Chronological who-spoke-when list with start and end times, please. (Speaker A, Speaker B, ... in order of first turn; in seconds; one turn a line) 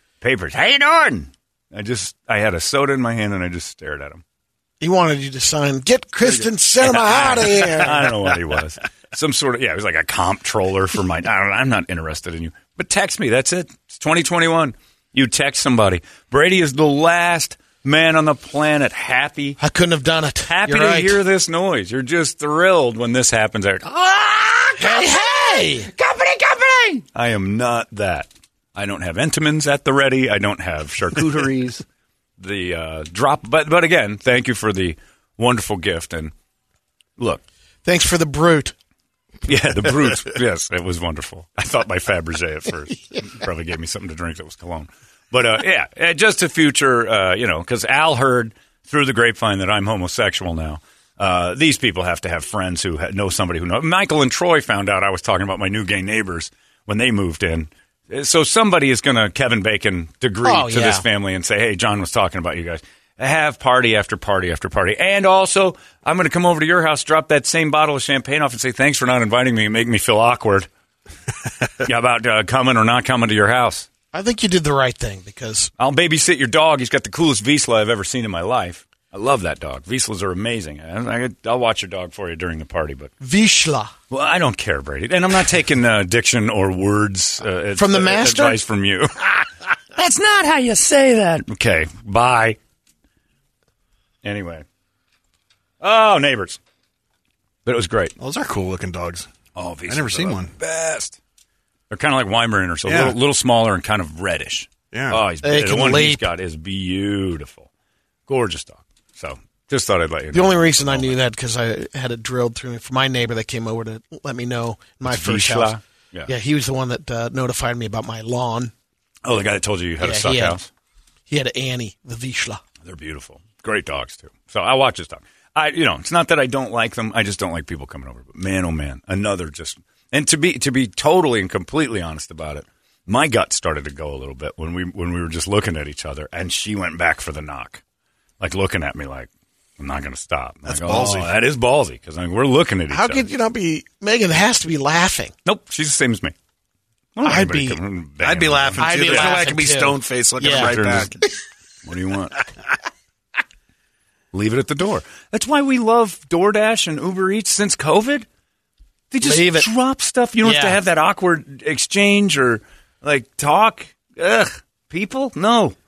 Speaker A: 0.2-4.2
Speaker B: 4.8-8.0
Speaker A: 6.8-19.6
Speaker B: 19.6-21.2
Speaker A: 20.5-31.8
Speaker B: 24.8-25.9
Speaker A: 32.4-36.3
Speaker A: 37.2-37.4
Speaker B: 37.9-38.7
Speaker A: 39.5-70.7
Speaker B: 60.4-61.0
Speaker A: 71.8-73.9
Speaker B: 74.1-75.7
Speaker A: 75.8-83.1
Speaker B: 83.2-83.9
Speaker A: 84.1-92.6
Speaker B: 87.8-88.6
Speaker A: 94.2-94.7
Speaker A: 95.8-96.6
Speaker A: 97.7-98.1
Speaker C: 98.2-99.3
Speaker A: 99.6-101.2
Speaker C: 99.9-100.5
Speaker A: 101.9-107.7
Speaker C: 102.9-103.2
Speaker C: 104.9-105.2
Speaker B: 105.4-106.2
Speaker A: 108.3-111.1
Speaker B: 110.3-115.8
Speaker A: 115.0-116.3
Speaker B: 116.3-118.7
Speaker A: 119.2-120.7
Speaker B: 120.0-120.6
Speaker B: 121.3-122.6
Speaker A: 122.8-137.8
Speaker A: 138.4-143.3
Speaker C: 140.7-141.3
Speaker B: 142.9-145.3
Speaker A: 145.5-146.3
Speaker A: 147.2-149.4
Speaker B: 147.2-147.8
Speaker C: 148.2-151.1
Speaker B: 148.8-150.7
Speaker A: 150.5-151.2
Speaker A: 151.8-152.4
Speaker A: 154.3-158.3
Speaker A: 159.1-165.8
Speaker B: 159.2-159.7
Speaker B: 160.4-160.8